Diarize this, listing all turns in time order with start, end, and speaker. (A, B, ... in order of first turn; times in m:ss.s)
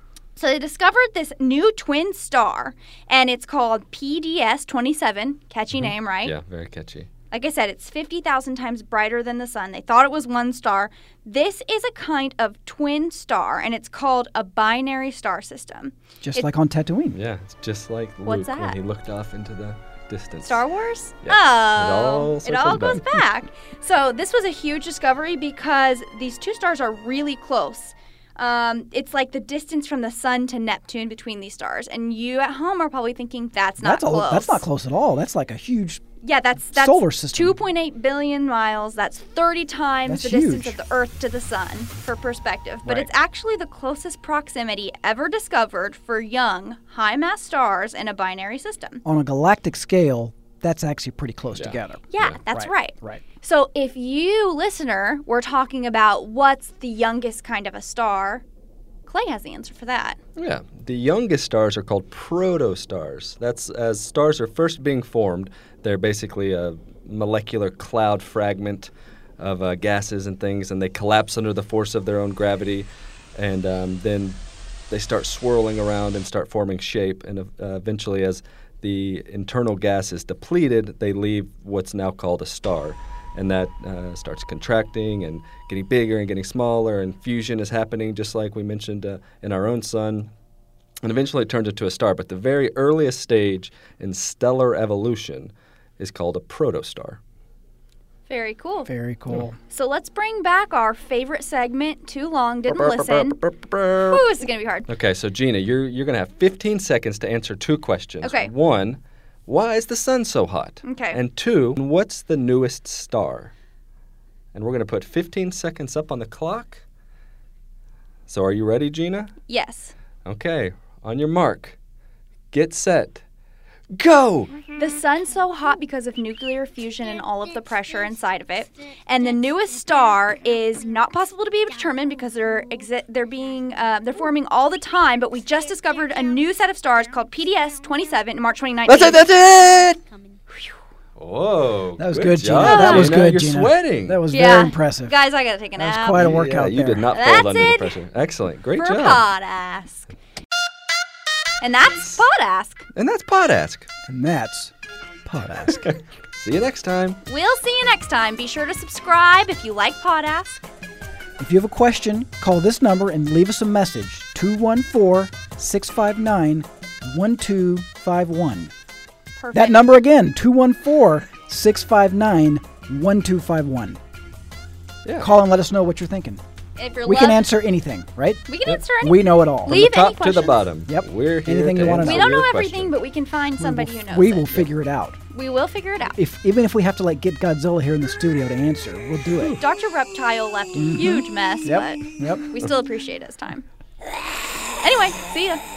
0:00.4-0:06.3 A
0:05.7-0:07.1 B
0:07.3-0:16.4 A
0:16.2-0:17.2 C
0:17.1-0:20.6 B
0:18.2-0:18.8 A
0:20.4-0:34.6 A
0:21.2-0:23.0 B
0:33.8-0:36.0 C
0:36.2-0:49.0 A
0:36.7-0:37.6 C
0:40.1-0:40.8 C
0:49.0-0:53.2 C
0:51.5-0:52.4 B
0:52.1-0:58.4 A
0:59.0-1:00.2 A
1:00.4-1:30.3 B
1:31.0-1:37.2 B
1:38.3-1:38.9 A
1:38.8-1:39.6 C
1:39.7-1:43.4 A
1:42.7-1:44.2 B
1:44.0-1:44.9 A
1:44.9-1:53.5 B
1:48.2-1:48.5 A
1:50.8-1:51.2 A
1:54.5-1:56.8 B
1:58.3-1:59.3 B
1:59.5-1:59.9 A
2:00.2-2:01.8 B
2:02.5-2:03.2 B
2:03.9-2:04.6 B
2:04.7-2:19.3 A
2:18.8-2:20.0 B
2:21.2-2:24.2 B
2:22.0-2:25.1 C
2:22.6-2:23.2 A
2:24.3-2:26.3 A
2:25.8-2:27.1 C
2:26.1-2:29.2 B
2:27.1-2:28.0 A
2:28.7-2:30.1 A
2:31.6-2:32.9 A
2:32.9-2:33.9 B
2:34.1-2:34.7 C
2:35.2-2:35.9 C
2:35.7-2:37.2 B
2:37.2-2:40.7 A
2:41.4-2:48.7 C
2:49.4-2:50.0 A
2:49.5-2:54.0 C
2:55.0-2:55.3 B
2:55.2-2:56.4 C
2:56.8-2:57.5 A
2:57.0-2:58.4 C
2:58.5-3:00.6 A
2:59.0-2:59.8 C
2:59.6-3:02.9 B
3:00.9-3:02.2 C
3:01.9-3:04.6 A
3:03.6-3:05.2 C
3:05.3-3:06.1 A
3:06.1-3:09.5 C
3:09.6-3:13.6 A
3:10.7-3:12.5 C
3:14.8-3:15.6 A